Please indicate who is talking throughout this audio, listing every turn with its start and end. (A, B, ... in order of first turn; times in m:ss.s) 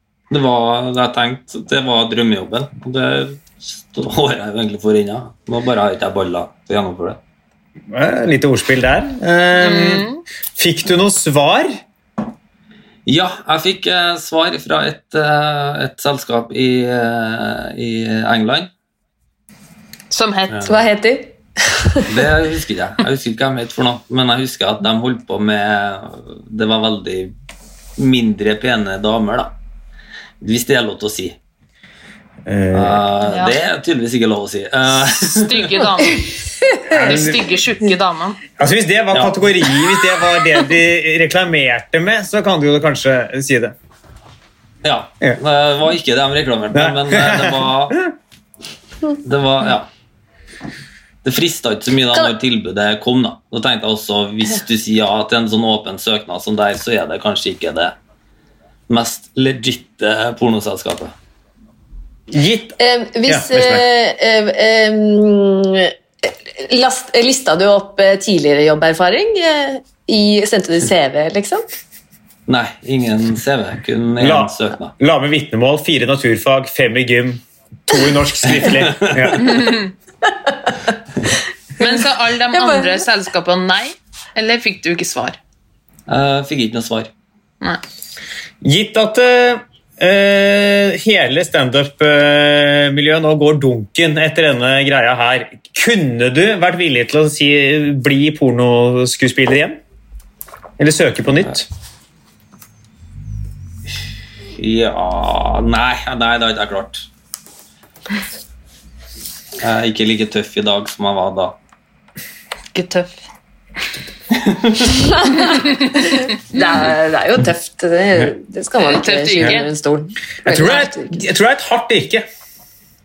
0:00.3-0:07.2 A
0:07.9-0:11.8 B
0:09.6-0:10.2 C
0:13.0-0:18.7 A
0:20.1-0:20.7 C
0:20.5-0:20.8 A
0:20.6-0:22.0 D
0:22.1-0:27.3 A
0:28.0-0:29.5 A
0:30.4-0:31.4 A
0:32.4-0:33.0 B
0:32.7-0:35.8 A
0:33.3-0:33.6 C
0:35.2-0:36.3 C
0:36.9-0:37.4 B
0:36.9-0:38.4 C
0:38.6-0:43.8 B
0:39.1-0:39.4 A
0:44.8-0:48.0 A
0:46.7-0:48.0 B
0:49.2-0:49.9 A
0:51.2-0:58.0 A
0:58.9-1:01.1 A
1:02.3-1:03.8 B
1:02.8-1:11.6 D
1:12.5-1:14.9 A
1:14.2-1:19.5 B
1:18.6-1:19.2 A
1:19.4-1:19.9 C
1:21.8-1:25.4 C
1:22.5-1:23.0 D
1:26.1-1:27.1 A
1:28.6-1:39.8 B
1:40.8-1:41.7 B
1:44.6-1:47.1 A
1:49.6-1:51.6 A
1:52.7-1:53.2 C
1:54.3-1:54.9 A
1:54.9-2:01.2 D
1:58.8-1:59.7 C
2:00.4-2:02.2 B